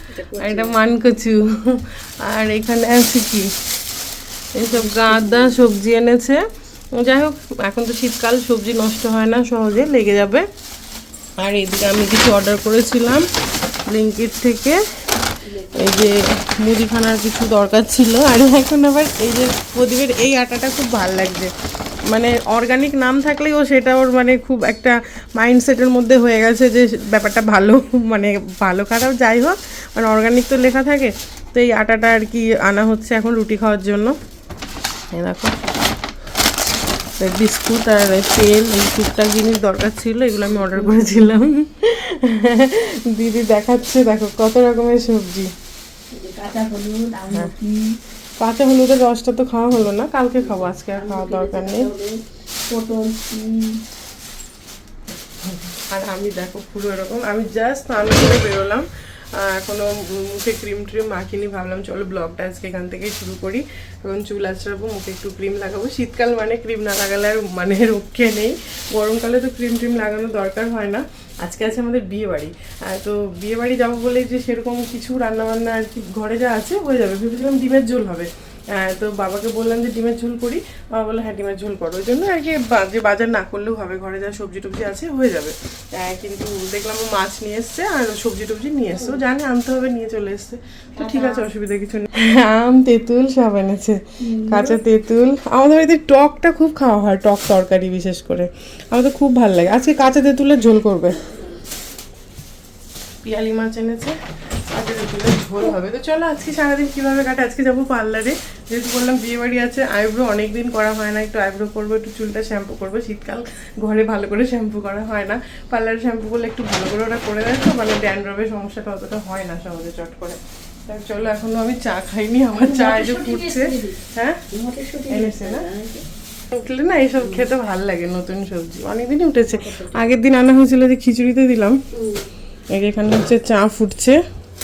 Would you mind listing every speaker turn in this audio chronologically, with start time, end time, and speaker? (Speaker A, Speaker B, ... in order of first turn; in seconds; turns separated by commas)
Speaker A: 0.1-0.8, Speaker B: 0.4-3.5, Speaker B: 4.6-6.4, Speaker A: 4.7-5.5, Speaker B: 7.0-10.4, Speaker B: 11.4-13.2, Speaker B: 13.9-14.8, Speaker A: 15.5-16.1, Speaker B: 15.8-21.5, Speaker B: 22.1-34.1, Speaker B: 35.1-35.5, Speaker B: 37.2-45.5, Speaker A: 46.1-48.0, Speaker B: 48.4-51.9, Speaker A: 50.9-53.8, Speaker B: 55.9-58.8, Speaker B: 59.4-78.3, Speaker B: 78.8-101.1, Speaker A: 94.2-94.7, Speaker B: 103.2-104.1, Speaker B: 104.7-124.4, Speaker A: 122.6-124.0, Speaker A: 124.5-126.0, Speaker B: 125.1-125.7, Speaker B: 126.5-131.8, Speaker A: 131.9-132.3, Speaker B: 132.7-134.2